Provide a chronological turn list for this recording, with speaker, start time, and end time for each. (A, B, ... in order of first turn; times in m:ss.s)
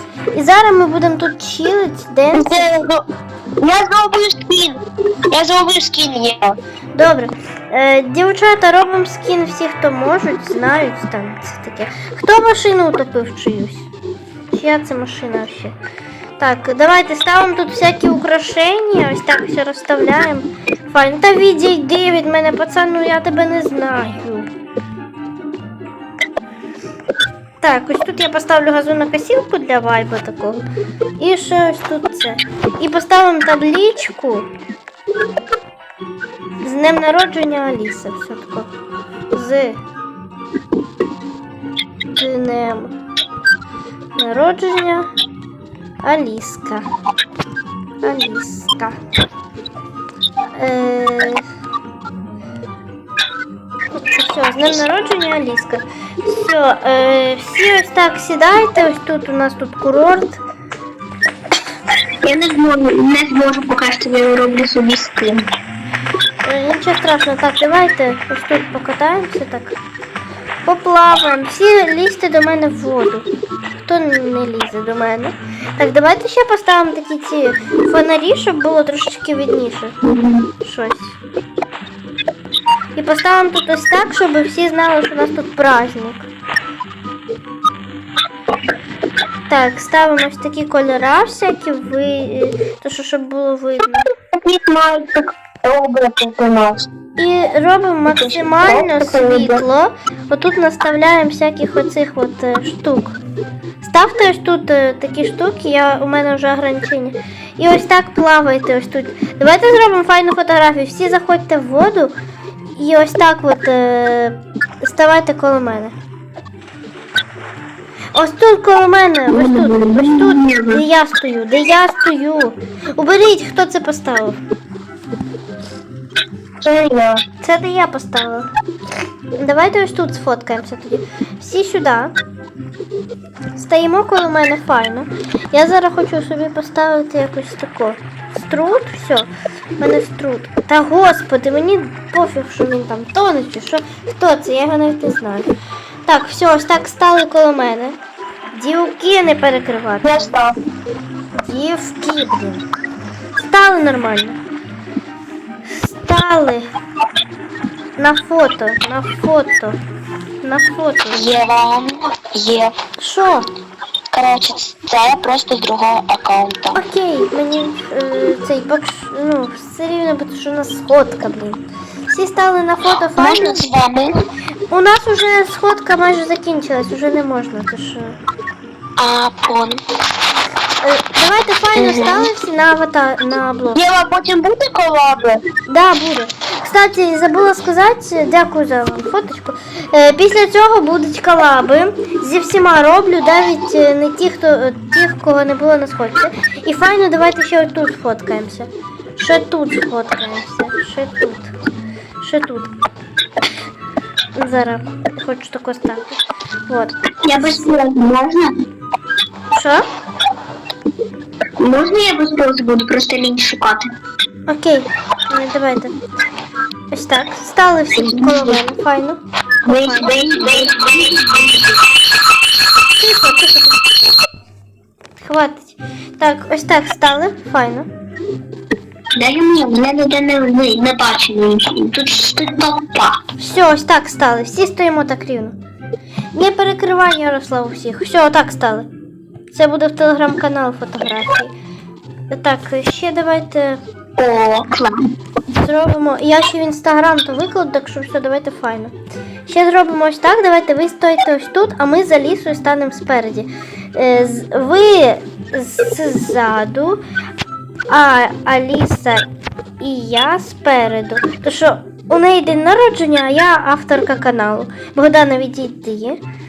0:00.3-0:02.8 A
0:02.3-0:03.0 B
0:03.6-0:06.6 B
0:07.0-0:13.9 A
0:14.5-0:15.8 A
0:16.4-0:24.5 A
0:27.6-0:30.7 A
0:31.2-0:34.5 A
0:36.6-0:38.7 A
0:39.3-0:39.8 A
0:42.1-0:43.0 A
0:44.2-0:45.1 A
0:46.0-0:46.9 A
0:48.0-0:49.0 A
0:50.6-0:51.4 A
0:53.9-1:00.4 A
1:02.2-1:05.5 C
1:06.4-1:09.8 A
1:10.6-1:13.3 A
1:13.8-1:20.0 A
1:20.1-1:20.5 C
1:20.6-1:21.2 A
1:23.0-1:26.3 A
1:29.5-1:34.1 A
1:34.2-1:36.9 B
1:37.2-1:43.2 A
1:38.2-1:39.6 B
1:43.8-1:52.2 A
1:52.8-1:56.0 A
1:58.1-2:04.4 A
1:59.3-2:00.8 B
2:06.6-2:07.2 B
2:07.4-2:08.5 A
2:09.4-2:12.2 A
2:13.6-2:25.5 A
2:26.1-2:28.0 A
2:28.5-2:30.4 A
2:30.0-2:30.6 B
2:31.3-2:32.6 A
2:33.4-2:34.4 A
2:35.7-2:36.7 A
2:38.0-2:39.8 A
2:40.4-2:41.2 A
2:41.1-2:42.8 C
2:43.0-2:43.5 A
2:44.1-2:46.8 C
2:46.7-2:53.6 A
2:53.2-2:54.2 C
2:54.7-2:58.2 A
2:59.0-2:59.8 C
3:00.8-3:03.9 A
3:01.8-3:02.3 C
3:03.8-3:05.4 B
3:05.7-3:21.6 A
3:22.2-3:22.7 A
3:24.4-3:27.7 A
3:27.2-3:28.6 C
3:29.5-3:29.9 A
3:31.6-3:34.0 C
3:34.5-3:36.0 A
3:36.9-3:40.1 A
3:38.0-3:38.6 C
3:39.7-3:41.4 B
3:39.7-3:41.7 C
3:43.0-3:43.8 A
3:45.2-3:47.9 A
3:49.2-3:53.2 C
3:53.4-3:55.6 A
3:56.4-3:58.9 A
3:59.5-4:01.6 A
4:02.3-4:03.8 A
4:04.2-4:05.1 C
4:05.6-4:09.0 A
4:09.5-4:17.0 A
4:17.9-4:19.3 A
4:19.8-4:26.2 A